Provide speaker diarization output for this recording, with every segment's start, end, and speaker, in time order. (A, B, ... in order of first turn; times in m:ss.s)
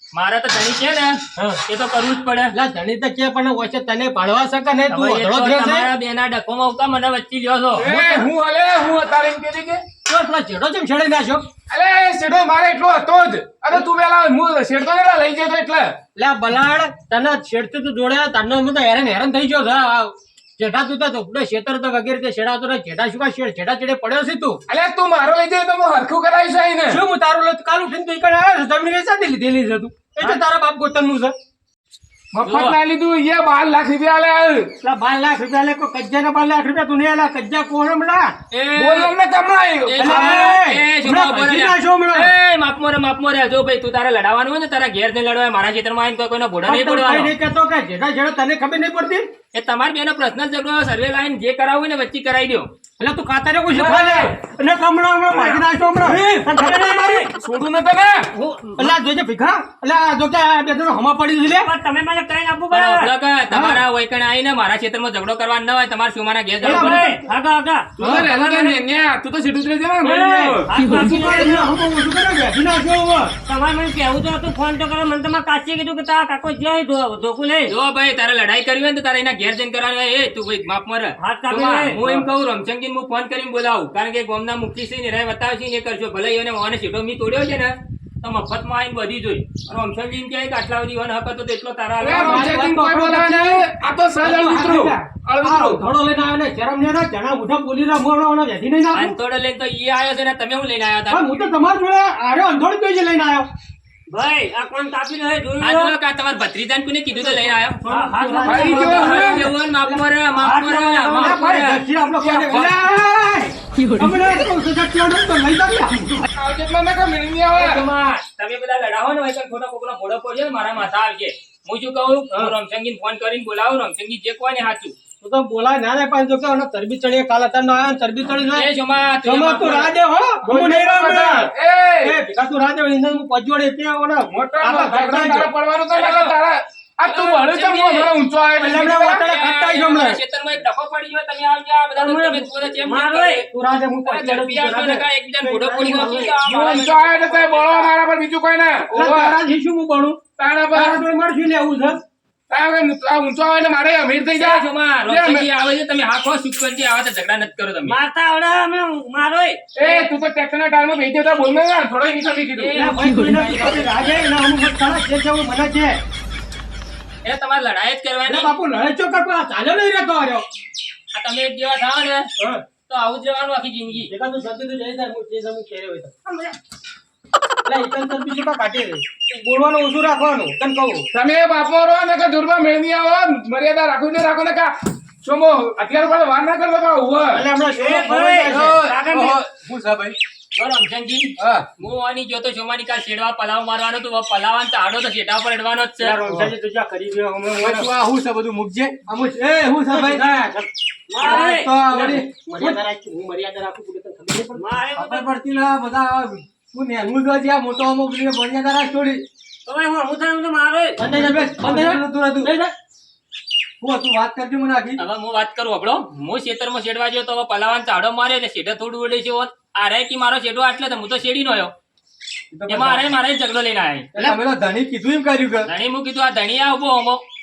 0:00.1-0:02.5 A
0:02.5-0:05.9 B
0:04.9-0:07.9 A
0:07.8-0:09.8 C
0:07.9-0:08.3 B
0:10.0-0:11.4 B
0:11.7-0:16.0 C
0:16.2-0:24.6 B
0:24.7-0:27.0 C
0:26.8-0:31.3 B
0:32.4-0:32.8 A
0:32.4-0:34.7 C
0:34.8-0:38.3 B
0:38.5-0:39.1 A
0:38.8-0:40.4 C
0:39.8-0:47.3 A
0:40.0-0:42.3 B
0:46.6-0:49.3 B
0:49.5-0:52.7 A
0:53.0-0:57.2 B
0:53.7-0:54.3 C
0:55.3-0:56.5 C
0:56.6-0:57.3 D
0:57.3-0:58.3 C
0:58.4-0:58.9 D
0:58.8-1:01.7 B
1:01.5-1:03.1 D
1:02.7-1:07.2 A
1:06.6-1:08.8 D
1:06.6-1:07.0 B
1:08.0-1:10.7 C
1:08.0-1:08.3 B
1:10.0-1:13.4 B
1:10.7-1:11.7 D
1:13.4-1:17.7 D
1:17.7-1:32.6 A
1:21.2-1:22.3 D
1:32.0-1:35.8 C
1:32.1-1:39.1 B
1:38.9-1:41.3 A
1:41.1-1:43.5 B
1:44.1-1:45.9 D
1:45.6-1:47.8 A
1:47.1-1:50.0 B
1:47.9-1:49.3 D
1:48.4-1:49.5 C
1:48.6-1:51.8 A
1:50.4-1:51.4 D
1:51.1-1:56.2 B
1:52.2-1:52.8 C
1:56.4-1:57.9 C
1:57.5-2:04.9 A
2:05.2-2:08.6 B
2:08.5-2:09.9 A
2:09.2-2:15.5 B
2:10.4-2:12.2 C
2:14.3-2:19.2 C
2:15.9-2:16.4 A
2:17.0-2:18.1 A
2:18.6-2:20.2 B
2:19.1-2:23.4 A
2:22.0-2:23.4 D
2:22.0-2:22.7 B
2:23.4-2:26.4 B
2:24.1-2:27.9 A
2:26.4-2:29.4 C
2:28.9-2:30.2 B
2:30.4-2:31.0 C
2:30.7-2:32.0 B
2:32.5-2:35.5 C
2:34.4-2:38.0 A
2:37.8-2:39.6 D
2:39.8-2:42.8 C
2:42.6-2:44.0 A
2:42.8-2:46.0 B
2:43.0-2:43.8 D
2:47.2-2:48.5 A
2:48.2-2:50.4 B
2:51.1-2:52.3 A
2:52.4-2:52.6 B
2:52.9-2:54.1 A
2:54.0-2:56.5 B
2:57.6-3:01.1 B
3:01.1-3:07.5 C
3:07.3-3:08.8 B
3:07.7-3:09.4 D
3:08.4-3:10.2 E
3:10.6-3:16.2 A
3:11.4-3:11.6 E
3:16.0-3:17.9 B
3:16.2-3:16.5 E
3:17.6-3:20.3 E
3:19.9-3:20.7 B
3:21.1-3:21.7 D
3:21.2-3:22.7 E
3:21.2-3:24.8 B
3:24.6-3:25.3 D
3:24.9-3:29.2 E
3:29.6-3:31.0 D
3:31.0-3:32.7 B
3:31.1-3:32.5 E
3:33.8-3:35.0 E
3:35.0-3:41.7 A
3:42.5-3:43.1 E
3:42.7-3:44.1 A
3:44.1-3:45.7 E
3:44.1-3:44.4 B
3:45.6-3:47.2 A